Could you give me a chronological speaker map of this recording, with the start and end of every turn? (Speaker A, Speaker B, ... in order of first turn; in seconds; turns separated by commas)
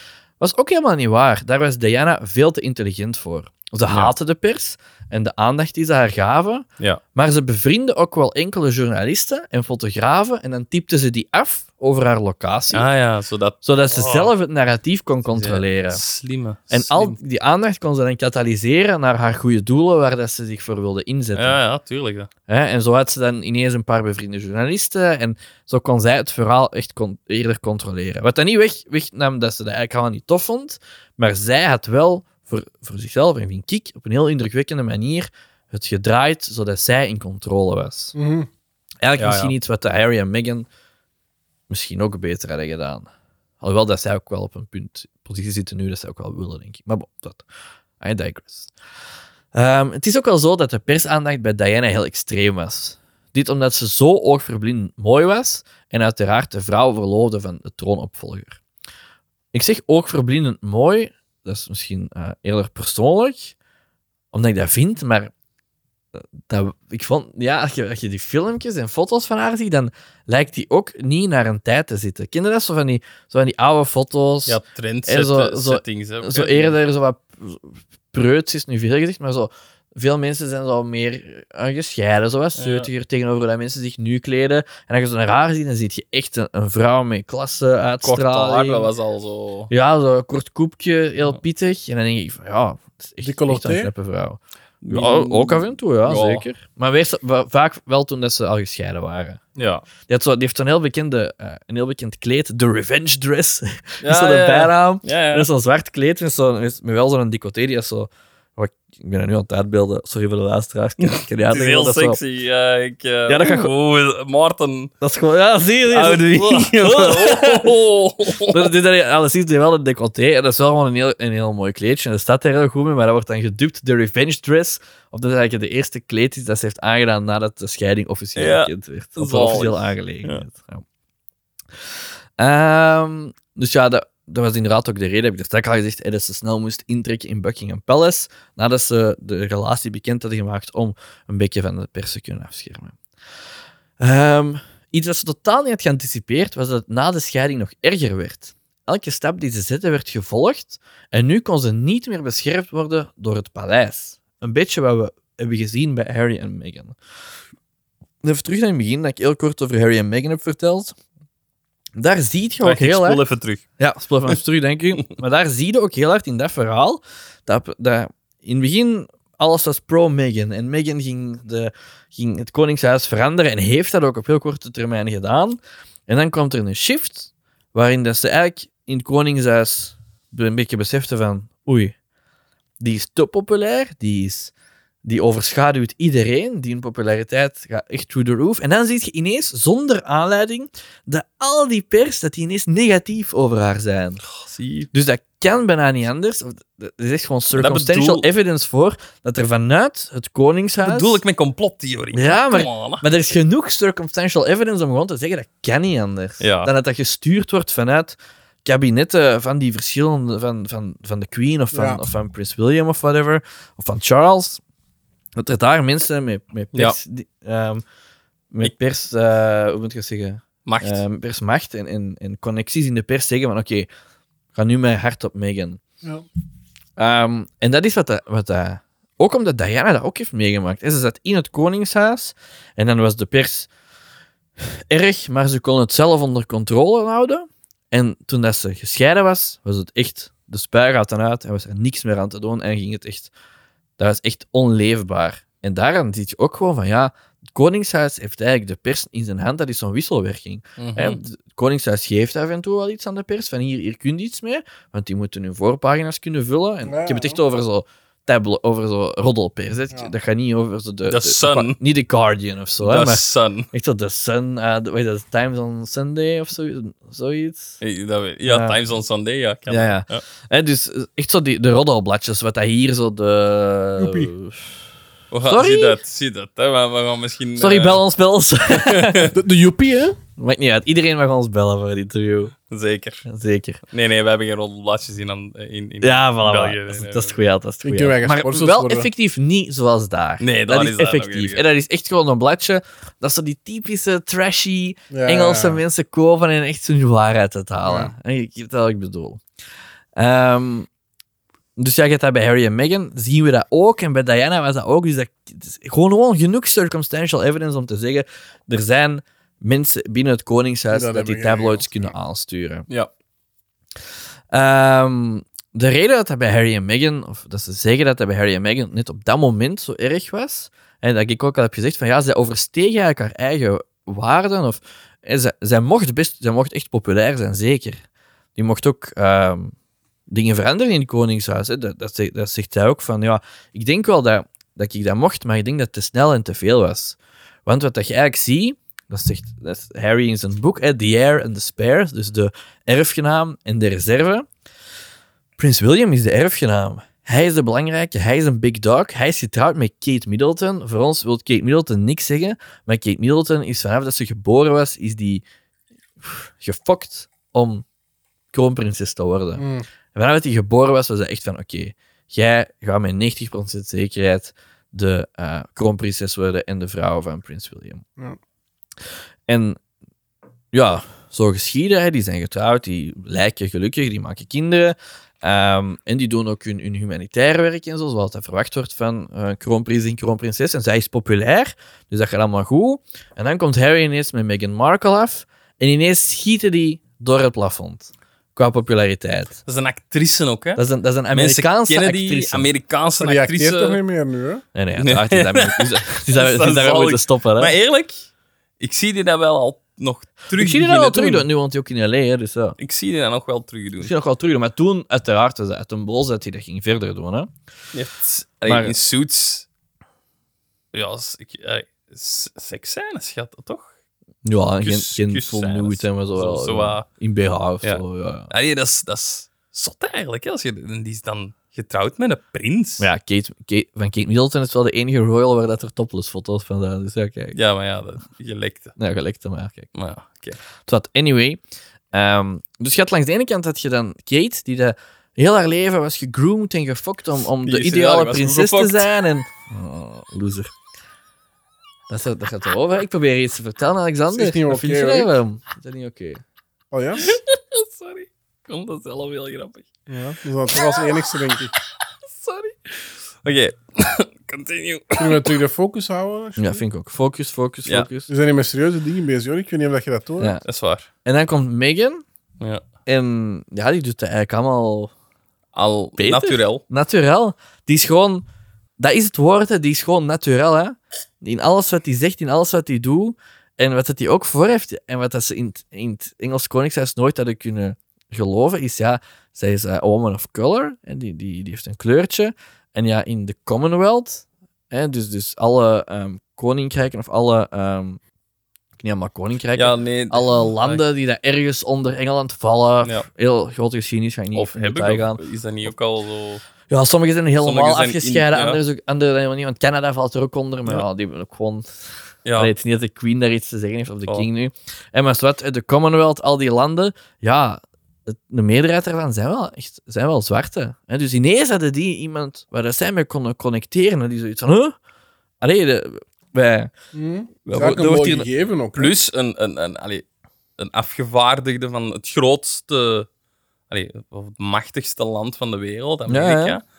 Speaker A: 0.4-12.9, Speaker B: 3.9-4.1, Speaker B: 12.7-14.3, Speaker A: 13.6-16.0, Speaker B: 15.3-17.2, Speaker A: 16.7-21.6, Speaker B: 21.4-22.3, Speaker A: 22.5-38.1, Speaker C: 38.1-38.5, Speaker A: 39.0-40.7, Speaker B: 39.2-39.5, Speaker A: 41.7-43.1, Speaker A: 43.6-47.4, Speaker A: 48.0-48.7, Speaker A: 49.5-58.6, Speaker A: 59.5-63.5, Speaker A: 64.3-65.3, Speaker A: 66.1-88.9, Speaker B: 74.5-76.8, Speaker B: 82.6-82.9, Speaker B: 88.0-89.7, Speaker A: 89.7-99.4, Speaker C: 93.2-93.9, Speaker B: 94.8-96.5, Speaker B: 99.6-99.8, Speaker A: 100.1-112.2, Speaker B: 104.0-105.5, Speaker B: 111.0-114.9, Speaker A: 113.3-113.7, Speaker A: 115.0-117.7, Speaker B: 115.9-118.7, Speaker A: 118.5-130.8, Speaker B: 128.4-130.4, Speaker A: 132.4-143.0, Speaker A: 144.0-156.9, Speaker A: 158.2-160.9, Speaker A: 162.0-163.2, Speaker B: 162.6-163.6, Speaker A: 163.8-181.9, Speaker A: 182.8-184.5, Speaker A: 185.0-194.2, Speaker B: 194.3-194.9, Speaker A: 194.9-201.2, Speaker B: 197.5-198.3, Speaker B: 200.8-203.0, Speaker A: 202.1-214.6, Speaker B: 206.4-206.7, Speaker C: 211.7-212.0, Speaker A: 215.4-217.8, Speaker A: 218.5-223.9, Speaker B: 220.7-221.0, Speaker A: 224.5-225.8, Speaker A: 227.0-233.7, Speaker A: 234.6-243.3, Speaker A: 244.0-267.8, Speaker B: 250.8-251.2, Speaker C: 256.9-257.4, Speaker B: 261.1-261.8, Speaker B: 262.8-263.7, Speaker B: 267.8-270.2, Speaker A: 268.5-268.8, Speaker A: 269.7-274.7, Speaker C: 274.0-274.3, Speaker B: 275.3-278.0, Speaker A: 275.4-276.0, Speaker A: 277.6-279.3, Speaker B: 278.7-279.3, Speaker C: 279.3-280.2, Speaker A: 280.4-282.5, Speaker B: 282.7-283.2, Speaker A: 283.3-283.8, Speaker B: 283.9-287.4, Speaker A: 286.0-299.4, Speaker C: 287.8-289.1, Speaker B: 290.4-291.6, Speaker C: 295.1-295.8, Speaker C: 297.8-298.1, Speaker A: 300.2-300.9, Speaker A: 301.8-312.9, Speaker C: 310.9-312.1, Speaker A: 314.5-328.0, Speaker A: 328.6-329.7, Speaker A: 330.3-344.5, Speaker A: 345.6-355.4, Speaker A: 356.2-357.9, Speaker A: 358.5-368.0, Speaker C: 359.6-359.9, Speaker A: 369.5-369.8, Speaker A: 370.7-389.6, Speaker B: 389.7-394.0, Speaker A: 390.8-392.7, Speaker C: 393.2-394.6, Speaker A: 394.7-397.7, Speaker B: 395.0-398.3, Speaker B: 398.8-401.4, Speaker A: 400.6-402.8, Speaker B: 402.8-404.1, Speaker A: 404.0-407.5, Speaker B: 407.9-409.7, Speaker A: 408.7-408.9, Speaker B: 410.9-413.9, Speaker A: 414.4-418.5, Speaker B: 414.8-417.1, Speaker B: 417.8-423.1, Speaker A: 423.0-427.6, Speaker B: 427.5-428.9, Speaker A: 429.0-429.9, Speaker B: 429.9-430.6, Speaker A: 430.9-431.6, Speaker A: 432.1-440.7, Speaker B: 437.6-439.1, Speaker A: 442.1-446.4, Speaker C: 444.3-445.3, Speaker C: 446.9-447.3, Speaker B: 447.2-449.9, Speaker C: 450.1-451.7, Speaker B: 450.7-451.1, Speaker B: 452.3-455.5, Speaker C: 455.2-456.8, Speaker A: 456.6-458.3, Speaker C: 458.3-460.6, Speaker B: 460.6-461.1, Speaker A: 461.2-462.2, Speaker A: 463.1-465.1, Speaker B: 465.7-466.8, Speaker A: 466.2-468.4, Speaker A: 469.0-488.2, Speaker A: 489.0-495.4, Speaker B: 489.8-491.0, Speaker B: 494.6-496.6, Speaker A: 496.9-501.9, Speaker B: 497.6-498.8, Speaker B: 502.4-502.7, Speaker A: 502.6-515.0, Speaker A: 515.6-516.9, Speaker C: 517.1-519.1, Speaker A: 517.7-518.5, Speaker B: 519.0-520.2, Speaker B: 520.8-523.3, Speaker B: 523.9-526.8, Speaker A: 526.3-526.8